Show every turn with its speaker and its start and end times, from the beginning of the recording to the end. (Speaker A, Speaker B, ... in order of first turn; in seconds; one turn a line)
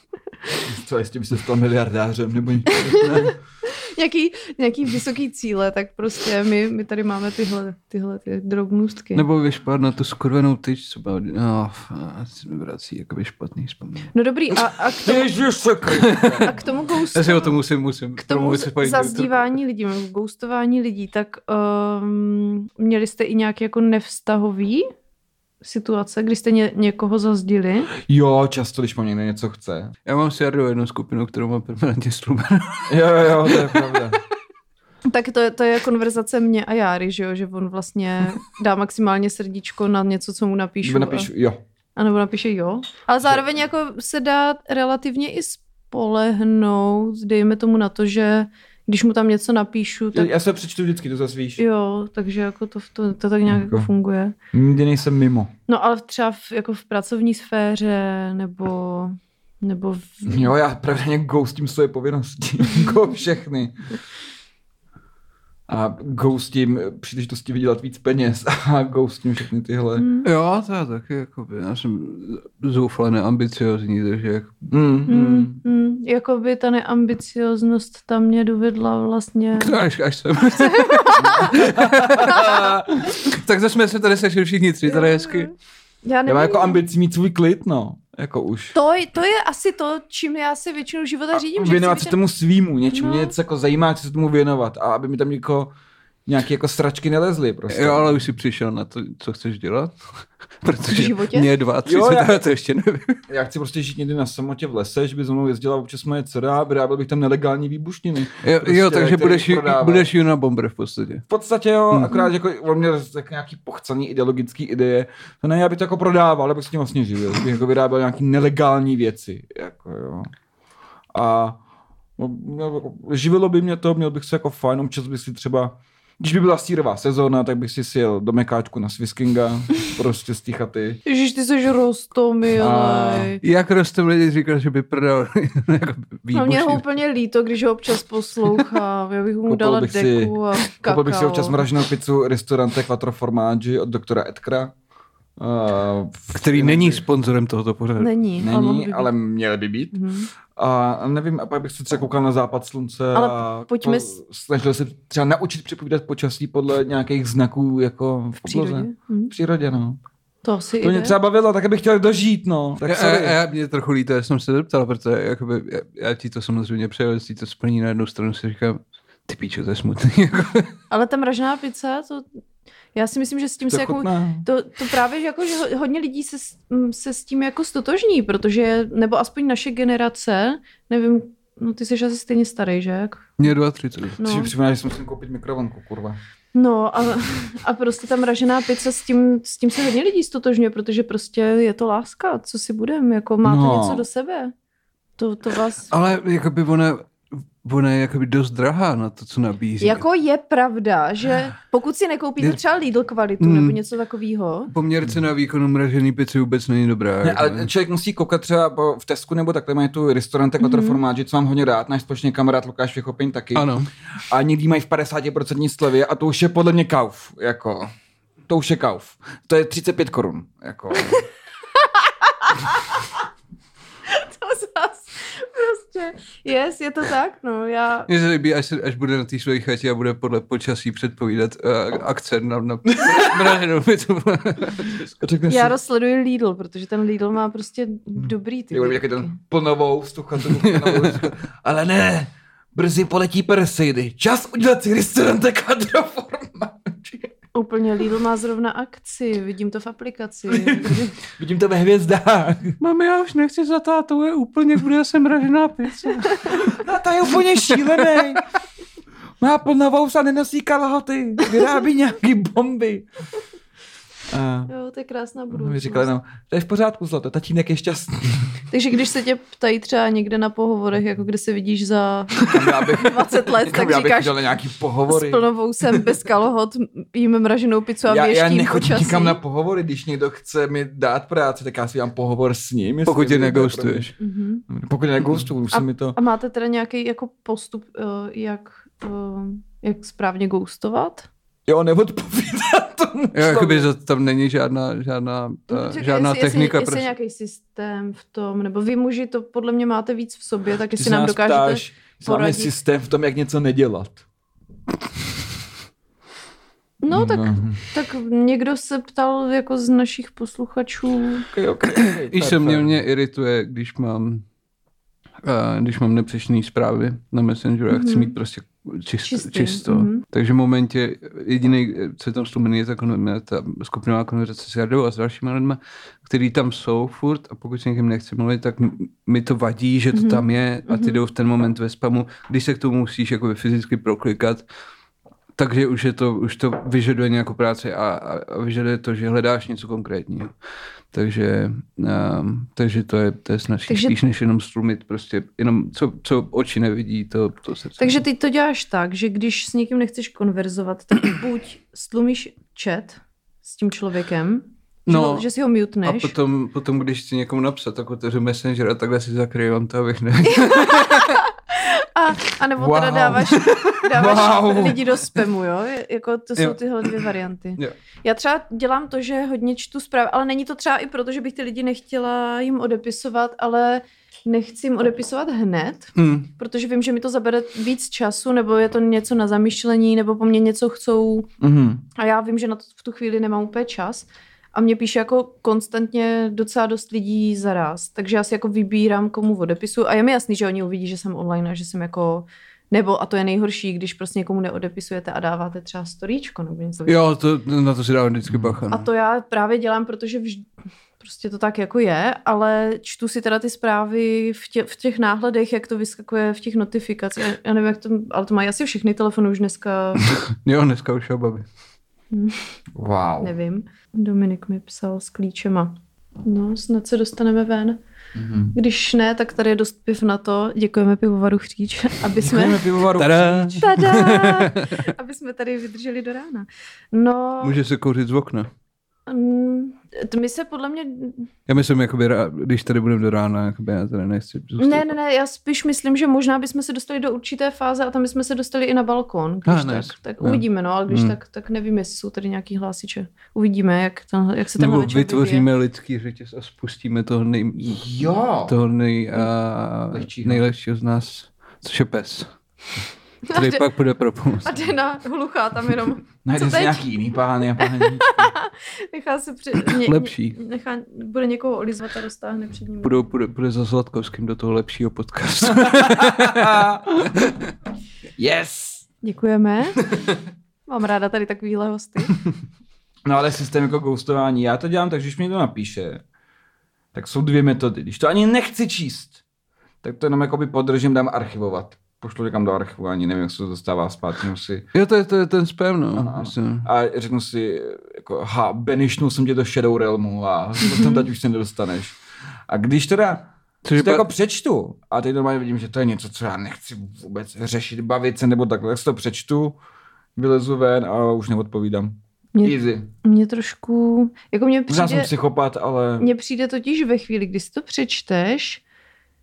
Speaker A: 0.6-3.3
Speaker B: 2.7-9.3
Speaker C: 3.0-3.3
Speaker C: 9.2-14.1
Speaker B: 14.1-15.3
Speaker A: 15.1-16.5
Speaker C: 15.9-16.5
Speaker B: 16.4-17.6
Speaker C: 17.1-19.6
Speaker B: 18.2-24.9
Speaker B: 25.6-27.9
Speaker A: 28.0-29.9
Speaker C: 30.1-34.0
Speaker A: 32.9-34.2
Speaker B: 35.1-41.3
Speaker A: 40.8-41.6
Speaker B: 42.0-50.3
Speaker A: 50.1-51.6
Speaker B: 51.6-54.4
Speaker A: 53.5-53.9
Speaker A: 54.5-55.5
Speaker B: 55.7-60.5
Speaker A: 60.3-63.9
Speaker B: 62.6-62.9
Speaker A: 65.7-70.1
Speaker B: 70.0-70.3
Speaker C: 70.2-74.7
Speaker A: 74.7-75.6
Speaker B: 75.1-79.8
Speaker C: 79.6-85.5
Speaker B: 80.5-81.6
Speaker A: 81.4-83.2
Speaker B: 82.2-82.8
Speaker B: 84.9-85.5
Speaker B: 86.0-86.8
Speaker A: 86.3-88.8
Speaker B: 88.7-92.2
Speaker A: 91.3-95.7
Speaker B: 92.9-93.3
Speaker A: 96.3-98.2
Speaker C: 97.7-100.0
Speaker C: 100.6-103.2
Speaker B: 100.9-101.5
Speaker A: 101.8-102.4
Speaker A: 103.3-110.1
Speaker C: 108.4-111.2
Speaker A: 111.3-120.3
Speaker C: 111.9-112.2
Speaker A: 121.1-121.6
Speaker A: 122.2-131.0
Speaker B: 131.1-133.4
Speaker A: 132.6-133.3
Speaker C: 133.4-137.0
Speaker B: 136.3-141.7
Speaker A: 139.5-144.7
Speaker A: 145.4-147.0
Speaker C: 146.3-148.1
Speaker B: 148.0-149.1
Speaker A: 148.4-150.0
Speaker B: 149.9-150.3
Speaker A: 150.5-160.0
Speaker B: 153.1-154.2
Speaker B: 158.4-159.3
Speaker B: 160.4-161.2
Speaker A: 160.8-163.4
Speaker C: 162.8-170.7
Speaker B: 170.9-172.2
Speaker B: 172.9-183.5
Speaker A: 173.7-174.5
Speaker C: 183.4-184.2
Speaker B: 184.2-184.5
Speaker A: 184.2-186.2
Speaker B: 186.6-194.5
Speaker A: 193.4-194.1
Speaker B: 195.2-195.9
Speaker C: 195.9-200.0
Speaker B: 199.8-204.7
Speaker C: 203.4-203.8
Speaker C: 204.7-207.7
Speaker A: 207.2-217.9
Speaker B: 210.6-211.0
Speaker C: 213.6-213.9
Speaker A: 218.5-221.3
Speaker B: 221.7-223.0
Speaker B: 224.1-228.1
Speaker C: 228.1-235.1
Speaker A: 232.9-233.6
Speaker A: 235.2-235.8
Speaker B: 235.5-239.4
Speaker A: 238.7-247.3
Speaker C: 240.5-241.3
Speaker B: 247.5-251.2
Speaker A: 250.5-252.8
Speaker C: 252.8-256.7
Speaker B: 256.3-256.6
Speaker A: 256.5-258.4
Speaker C: 257.7-258.3
Speaker A: 259.4-263.1
Speaker A: 264.3-264.7
Speaker B: 264.7-266.1
Speaker A: 265.5-268.5
Speaker B: 268.7-274.4
Speaker A: 272.5-275.5
Speaker B: 275.1-279.4
Speaker A: 278.1-284.1
Speaker C: 283.1-284.1
Speaker B: 284.2-284.7
Speaker A: 284.7-286.2
Speaker B: 285.7-291.3
Speaker A: 291.7-293.9
Speaker C: 293.3-297.1
Speaker B: 295.7-302.7
Speaker A: 300.9-304.2
Speaker B: 307.0-311.5
Speaker A: 307.1-307.8
Speaker A: 311.5-313.0
Speaker C: 312.3-314.4
Speaker C: 315.4-334.6
Speaker B: 317.9-318.4
Speaker B: 319.2-320.2
Speaker B: 330.1-331.2
Speaker C: 335.6-340.5
Speaker C: 341.1-348.2
Speaker B: 343.9-344.1
Speaker B: 348.0-356.3
Speaker C: 355.1-355.5
Speaker C: 356.1-361.4
Speaker B: 360.5-381.5
Speaker A: 362.8-365.2
Speaker C: 366.6-367.9
Speaker C: 376.2-376.5
Speaker A: 381.6-382.0
Speaker B: 382.2-397.2
Speaker C: 397.1-399.1
Speaker A: 398.5-398.8
Speaker B: 398.9-400.7
Speaker B: 401.2-410.3
Speaker C: 410.5-411.7
Speaker B: 412.3-412.6
Speaker A: 412.9-413.5
Speaker B: 413.4-418.0
Speaker A: 418.4-418.8
Speaker B: 418.7-422.9
Speaker A: 422.4-424.2
Speaker C: 423.2-425.0
Speaker B: 423.8-427.8
Speaker C: 427.6-428.7
Speaker B: 429.3-431.5
Speaker C: 431.7-435.1
Speaker B: 434.8-445.7
Speaker C: 439.7-441.4
Speaker C: 444.8-448.0
Speaker A: 447.8-448.8
Speaker C: 448.7-452.5
Speaker A: 450.1-450.6
Speaker B: 453.5-453.9
Speaker C: 453.5-454.9
Speaker B: 454.6-457.0
Speaker A: 456.4-458.5
Speaker B: 457.8-463.3
Speaker C: 459.9-460.6
Speaker C: 463.0-466.8
Speaker A: 465.6-467.6
Speaker A: 468.4-469.1
Speaker B: 469.2-470.1
Speaker B: 470.9-472.4
Speaker A: 473.3-476.2
Speaker A: 477.1-479.4
Speaker A: 480.0-484.9
Speaker C: 484.9-486.9
Speaker A: 486.2-499.8
Speaker B: 490.8-491.2
Speaker C: 493.8-494.2
Speaker A: 500.4-503.1
Speaker B: 502.6-505.3
Speaker A: 504.9-506.3
Speaker B: 506.2-508.8